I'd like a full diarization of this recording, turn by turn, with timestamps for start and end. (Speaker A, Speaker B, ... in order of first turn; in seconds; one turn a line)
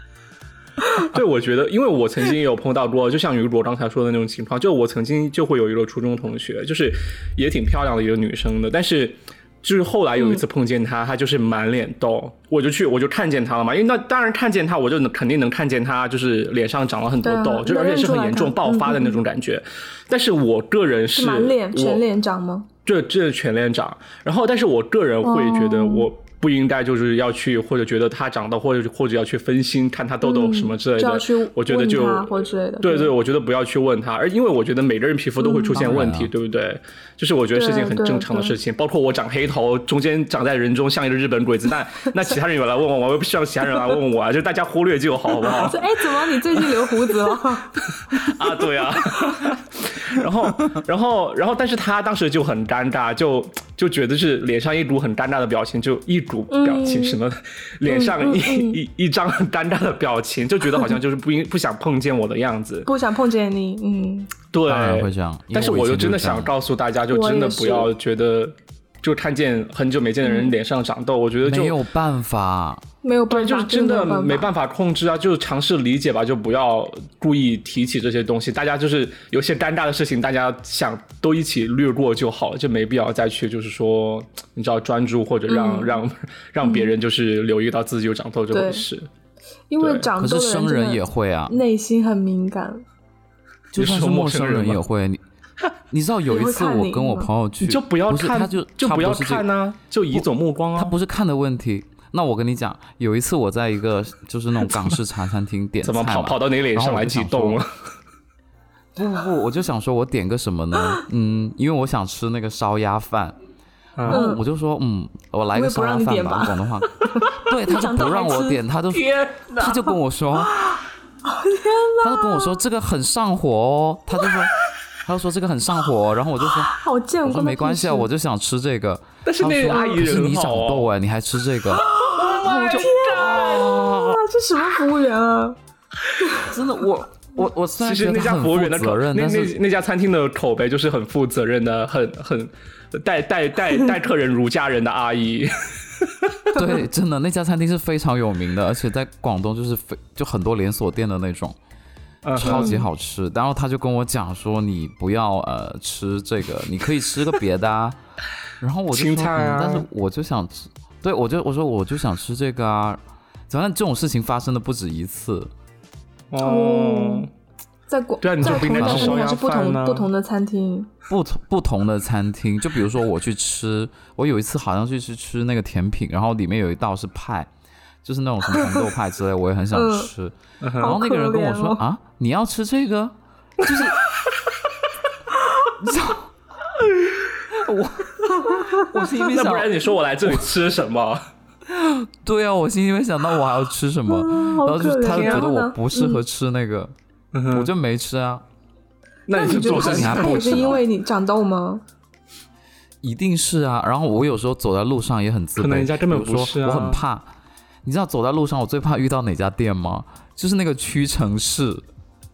Speaker A: 1.0-22.0
Speaker B: 10.2-10.4
Speaker B: 17.2-19.2
Speaker B: 21.1-22.7
Speaker A: 22.9-47.4
Speaker B: 25.2-26.1
Speaker B: 30.2-33.1
Speaker B: 35.4-36.0
Speaker C: 35.7-36.3
Speaker B: 37.5-38.6
Speaker B: 45.4-48.4
Speaker A: 48.1-62.9
Speaker B: 56.5-57.2
Speaker B: 57.9-58.8
Speaker B: 62.9-64.3
Speaker A: 64.5-71.8
Speaker C: 64.7-66.5
Speaker B: 67.1-67.9
Speaker B: 70.2-70.5
Speaker C: 71.4-72.8
Speaker B: 73.0-74.5
Speaker A: 73.3-89.1
Speaker B: 85.5-86.0
Speaker B: 86.6-86.9
Speaker B: 88.5-88.9
Speaker B: 89.7-92.8
Speaker A: 89.8-90.1
Speaker C: 90.2-91.6
Speaker C: 93.7-95.2
Speaker A: 93.8-94.8
Speaker C: 95.9-99.5
Speaker B: 96.3-97.3
Speaker A: 97.6-100.9
Speaker C: 100.1-107.6
Speaker A: 105.8-107.7
Speaker C: 109.0-113.4
Speaker A: 114.0-114.2
Speaker C: 114.0-120.8
Speaker B: 114.1-114.4
Speaker B: 115.5-118.6
Speaker A: 118.9-119.8
Speaker B: 120.5-122.6
Speaker C: 122.0-124.5
Speaker C: 125.0-134.2
Speaker B: 126.5-128.1
Speaker A: 129.2-130.9
Speaker B: 129.7-130.0
Speaker B: 131.7-135.6
Speaker A: 132.2-133.8
Speaker B: 136.2-136.5
Speaker C: 136.4-139.6
Speaker A: 137.8-146.5
Speaker C: 146.5-151.6
Speaker A: 152.2-152.8
Speaker C: 152.4-158.0
Speaker B: 152.4-152.9
Speaker C: 158.6-165.5
Speaker A: 158.9-159.9
Speaker A: 166.3-167.3
Speaker B: 166.4-167.3
Speaker B: 167.9-170.9
Speaker A: 168.2-170.1
Speaker C: 168.4-169.3
Speaker C: 171.1-177.5
Speaker C: 178.0-184.0
Speaker B: 178.6-178.8
Speaker B: 179.7-180.1
Speaker A: 180.6-181.0
Speaker B: 180.8-181.8
Speaker C: 185.8-186.3
Speaker C: 187.5-190.4
Speaker B: 188.3-188.9
Speaker A: 189.2-191.2
Speaker C: 191.7-196.9
Speaker B: 194.1-196.2
Speaker A: 195.1-195.5
Speaker A: 197.3-197.7
Speaker C: 197.5-198.4
Speaker A: 199.3-200.8
Speaker B: 199.3-201.8
Speaker C: 199.4-200.8
Speaker C: 203.0-207.3
Speaker A: 205.6-207.0
Speaker C: 207.8-211.8